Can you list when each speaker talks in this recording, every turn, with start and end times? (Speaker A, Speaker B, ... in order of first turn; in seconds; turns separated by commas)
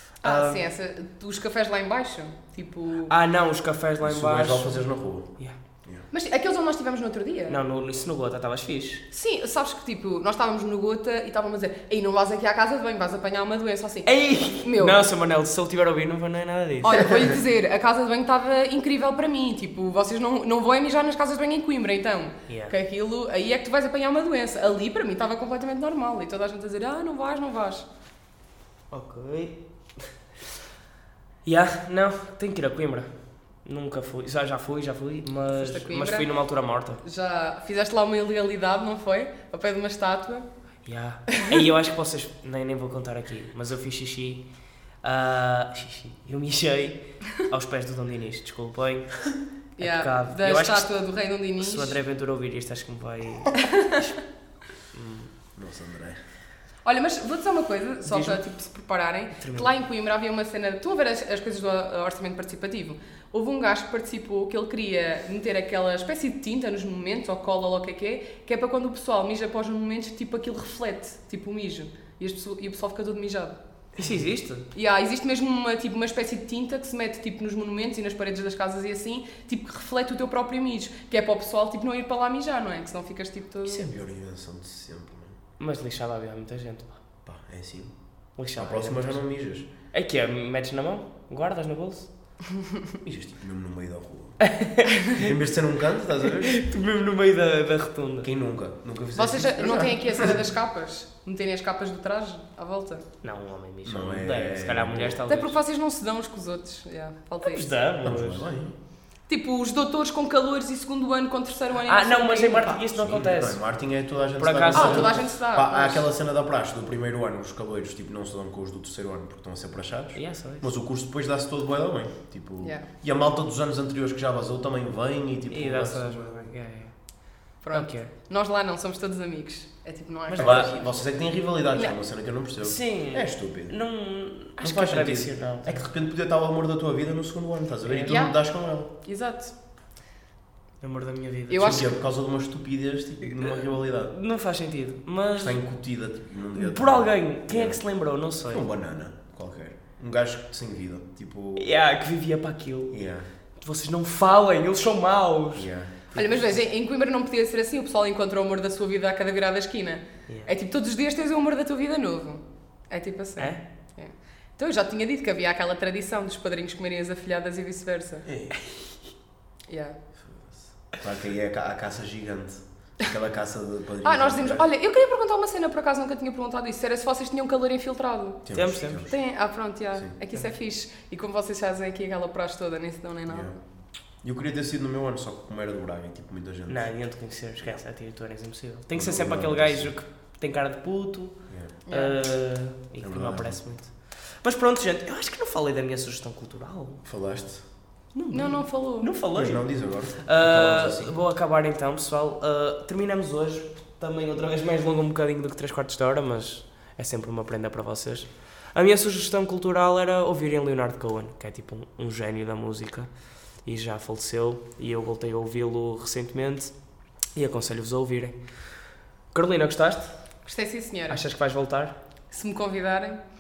Speaker A: 0.2-0.6, Speaker B: 0.2-3.1, Speaker A: 3.1-4.9, Speaker C: 4.0-6.1, Speaker B: 6.1-7.6, Speaker A: 7.5-9.0, Speaker B: 9.1-15.0, Speaker A: 14.1-17.3, Speaker B: 16.8-27.9, Speaker A: 22.5-22.7, Speaker A: 28.9-29.6, Speaker A: 31.4-33.1, Speaker A: 33.6-37.0, Speaker B: 35.5-36.3, Speaker B: 37.0-40.5, Speaker A: 40.9-44.5, Speaker A: 45.0-50.9, Speaker B: 49.8-52.0, Speaker A: 51.6-54.2, Speaker B: 53.5-54.0, Speaker A: 54.9-55.3, Speaker C: 55.6-56.2, Speaker B: 56.8-73.6, Speaker A: 58.1-58.4, Speaker A: 59.4-59.7, Speaker A: 74.0-74.7, Speaker B: 74.7-83.9, Speaker C: 83.7-85.4, Speaker A: 85.6-87.0, Speaker C: 87.3-87.9, Speaker A: 88.4-89.2, Speaker C: 88.6-89.7, Speaker A: 89.9-92.1, Speaker C: 93.0-96.6, Speaker A: 94.5-95.3, Speaker A: 96.5-98.3, Speaker C: 98.2-100.4, Speaker B: 99.2-103.1, Speaker A: 103.2-105.6, Speaker C: 103.8-105.2, Speaker B: 105.3-107.7, Speaker A: 107.4-108.5, Speaker C: 108.0-108.8, Speaker B: 109.3-112.8, Speaker A: 111.9-113.6, Speaker C: 113.0-126.3, Speaker A: 114.4-115.2, Speaker B: 114.7-116.0, Speaker A: 120.2-120.7, Speaker B: 122.6-122.9, Speaker A: 125.5-127.0, Speaker A: 127.6-128.1, Speaker B: 127.6-130.7, Speaker A: 130.3-130.9, Speaker C: 130.4-133.8, Speaker A: 132.6-135.8, Speaker C: 134.6-138.9, Speaker A: 137.9-138.2, Speaker B: 138.1-138.4, Speaker B: 139.0-139.5, Speaker A: 140.8-141.9, Speaker B: 141.5-141.9, Speaker C: 141.6-144.2, Speaker A: 143.2-145.6, Speaker C: 145.4-147.8, Speaker A: 146.6-148.7, Speaker C: 148.5-151.7, Speaker A: 151.6-153.0, Speaker C: 152.9-153.3, Speaker A: 153.6-155.7, Speaker C: 155.6-156.0, Speaker B: 156.1-168.3, Speaker C: 168.3-168.6, Speaker B: 169.7-170.0, Speaker C: 170.9-174.7, Speaker B: 174.0-178.4, Speaker C: 178.5-179.2, Speaker A: 178.5-179.1, Speaker B: 179.0-183.5, Speaker C: 183.3-183.6, Speaker C: 184.2-186.9, Speaker A: 186.7-197.0, Speaker C: 188.9-189.9, Speaker B: 191.9-192.1, Speaker C: 193.0-193.6, Speaker C: 197.1-197.6, Speaker A: 198.1-213.1, Speaker B: 198.3-199.1, Speaker C: 199.3-201.1, Speaker A: 213.6-216.7, Speaker A: 217.3-218.4, Speaker A: 219.3-220.2, Speaker B: 220.4-221.2, Speaker A: 221.1-222.0, Speaker B: 222.3-223.2